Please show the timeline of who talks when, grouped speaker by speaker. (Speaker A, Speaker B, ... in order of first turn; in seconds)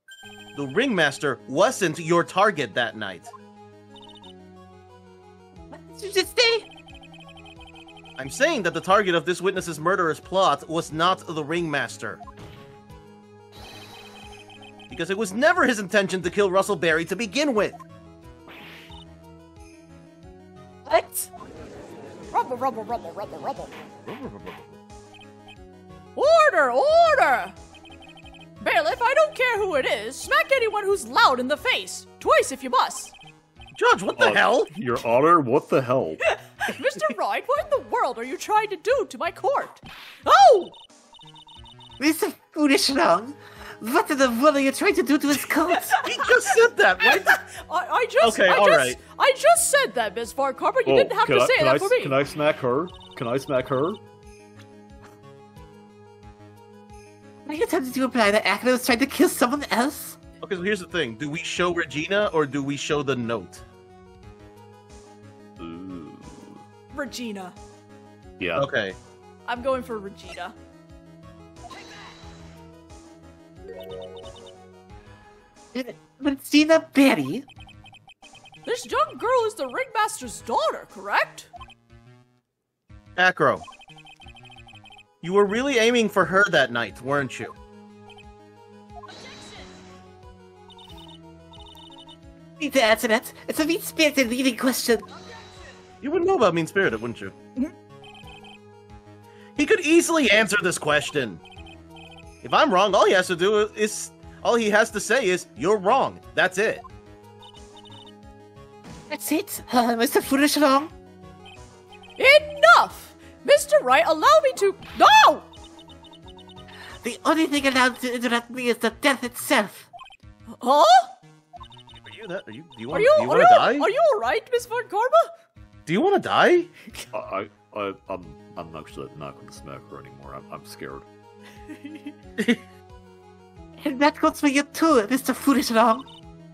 Speaker A: 0.5-3.3, 8.2-12.2, 14.9-17.8, 24.1-24.8, 33.7-34.7, 46.0-47.4, 48.2-49.0, 60.4-63.6, 68.5-69.0, 83.2-83.6, 85.2-87.5, 96.0-97.3, 99.5-101.4, 102.4-106.8, 122.0-123.9, 125.8-126.7
Speaker B: 5.7-6.7, 20.9-21.3, 42.0-46.0, 57.4-60.2, 75.7-77.4, 92.6-95.1, 109.1-110.9, 117.0-119.9, 133.8-136.1
Speaker C: 22.3-23.7, 26.1-27.6, 28.6-33.1, 36.3-40.7, 45.7-46.0, 47.0-52.2, 66.9-67.5, 69.5-70.5, 78.7-81.5, 112.2-115.5, 120.5-121.1, 122.9-125.3, 131.7-132.1
Speaker D: 34.1-36.2, 50.9-54.0, 65.6-66.6, 68.4-68.7, 127.1-131.1